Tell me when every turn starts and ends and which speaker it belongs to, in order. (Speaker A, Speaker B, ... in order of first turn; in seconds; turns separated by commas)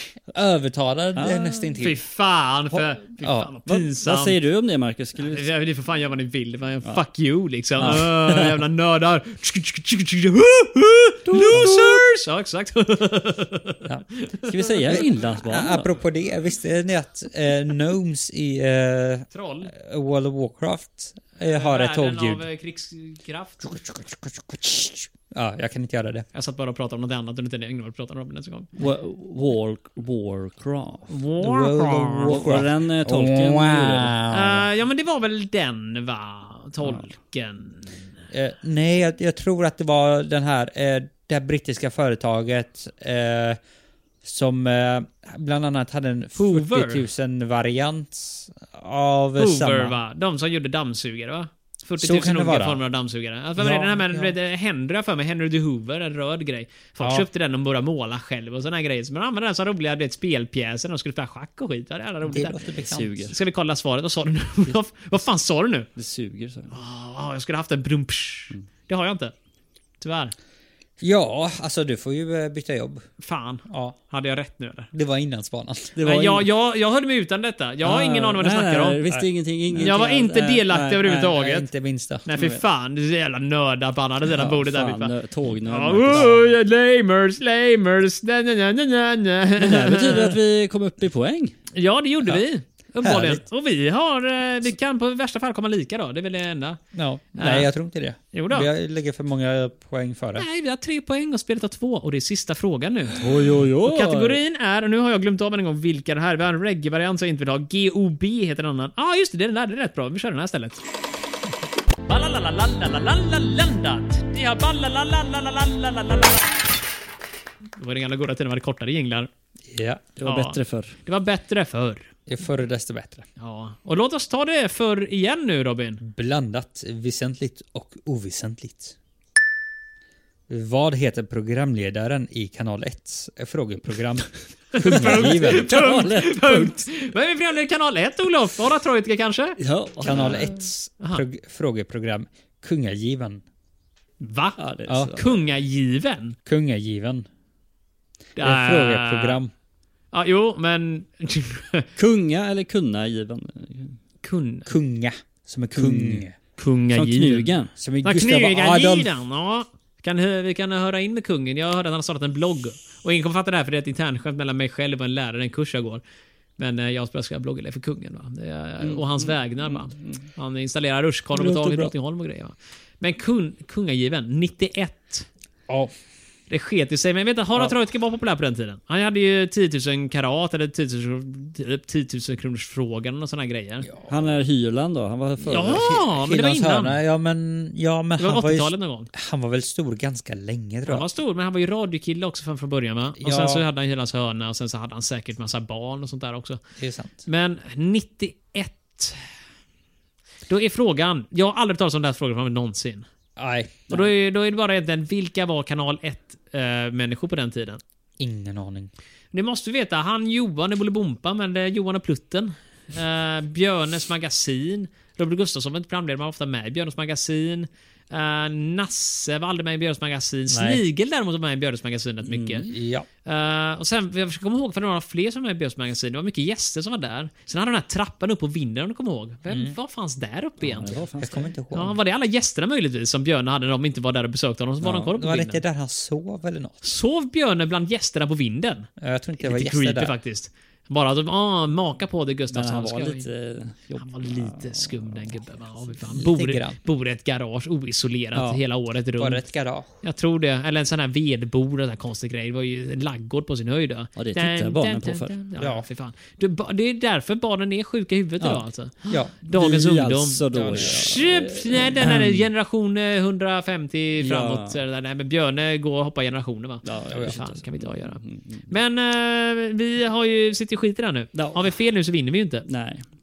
Speaker A: 0.3-2.0, Speaker B: 1.1-1.6, Speaker C: 1.8-4.3, Speaker A: 3.2-3.5, Speaker B: 3.6-5.5, Speaker C: 5.2-15.0, Speaker B: 7.8-8.6, Speaker B: 11.3-12.0, Speaker A: 11.4-11.8, Speaker B: 14.5-15.9, Speaker A: 14.8-22.4, Speaker C: 19.3-19.7, Speaker C: 21.4-23.7, Speaker A: 23.6-26.2, Speaker C: 26.3-28.7, Speaker B: 28.8-31.1, Speaker C: 31.1-32.4, Speaker A: 31.4-34.7, Speaker B: 32.2-34.1, Speaker C: 34.3-37.9, Speaker A: 38.3-43.6, Speaker A: 44.2-50.0, Speaker C: 46.4-47.0, Speaker C: 49.4-62.6, Speaker A: 52.0-52.8, Speaker A: 53.6-54.3, Speaker A: 62.3-63.1, Speaker B: 62.9-63.4, Speaker C: 63.3-65.9, Speaker B: 66.0-66.7, Speaker C: 66.7-69.3, Speaker C: 70.0-70.3, Speaker A: 71.0-73.1, Speaker C: 73.2-74.9, Speaker A: 73.7-74.0, Speaker A: 74.9-76.0, Speaker B: 75.9-76.5, Speaker C: 76.0-79.0, Speaker B: 77.8-81.3, Speaker C: 79.8-81.7, Speaker A: 81.3-82.2, Speaker C: 82.2-85.1, Speaker B: 82.3-82.6, Speaker B: 84.3-86.4, Speaker C: 85.7-90.3, Speaker B: 89.6-91.5, Speaker C: 91.7-96.8, Speaker A: 93.0-93.4, Speaker A: 96.9-100.5, Speaker C: 97.4-97.7, Speaker C: 98.3-98.7, Speaker C: 100.3-103.2, Speaker B: 103.2-104.4, Speaker C: 103.8-110.8, Speaker C: 112.1-116.5, Speaker C: 117.8-119.3, Speaker A: 119.7-120.0, Speaker B: 120.2-120.9, Speaker C: 120.2-122.1, Speaker A: 122.3-123.2, Speaker C: 123.4-126.0, Speaker A: 126.0-128.9, Speaker A: 130.5-135.9, Speaker C: 134.7-139.6, Speaker B: 134.9-136.8, Speaker B: 139.6-140.6, Speaker A: 140.0-143.4, Speaker C: 144.2-144.6, Speaker B: 144.6-145.3, Speaker A: 144.9-145.1, Speaker C: 145.1-146.3, Speaker A: 146.4-147.2, Speaker C: 148.4-149.4, Speaker A: 148.4-149.5, Speaker C: 150.1-151.9, Speaker B: 151.9-153.9, Speaker C: 154.2-154.7, Speaker A: 154.7-156.3, Speaker B: 155.7-156.2, Speaker C: 156.6-157.5, Speaker B: 156.9-157.7, Speaker A: 157.8-159.1, Speaker C: 158.0-166.0, Speaker C: 166.6-175.3, Speaker B: 168.8-170.2, Speaker A: 171.4-171.9, Speaker C: 176.5-183.9, Speaker B: 184.1-185.8, Speaker C: 185.5-187.0, Speaker A: 185.5-191.1, Speaker C: 188.2-189.1, Speaker C: 190.9-196.6, Speaker A: 193.2-193.6, Speaker A: 196.8-197.2, Speaker C: 197.2-199.2, Speaker C: 200.5-203.1, Speaker A: 203.4-203.9, Speaker C: 203.9-207.8, Speaker A: 208.2-208.9, Speaker C: 209.3-222.7, Speaker A: 220.5-220.8, Speaker B: 222.3-222.6, Speaker A: 222.7-223.1, Speaker C: 223.2-231.0, Speaker A: 229.5-229.7, Speaker B: 230.6-231.4, Speaker A: 231.2-231.9, Speaker C: 231.7-235.6, Speaker A: 234.9-236.8, Speaker C: 236.8-238.9, Speaker A: 239.0-240.1, Speaker C: 239.4-243.3, Speaker B: 242.5-245.3, Speaker C: 244.0-249.4, Speaker A: 246.1-246.8, Speaker A: 249.2-249.9, Speaker C: 250.0-272.6, Speaker B: 254.2-255.3, Speaker A: 255.6-255.8, Speaker B: 259.5-262.5, Speaker B: 264.2-264.8, Speaker B: 266.8-268.7, Speaker B: 271.3-271.7, Speaker B: 272.6-273.0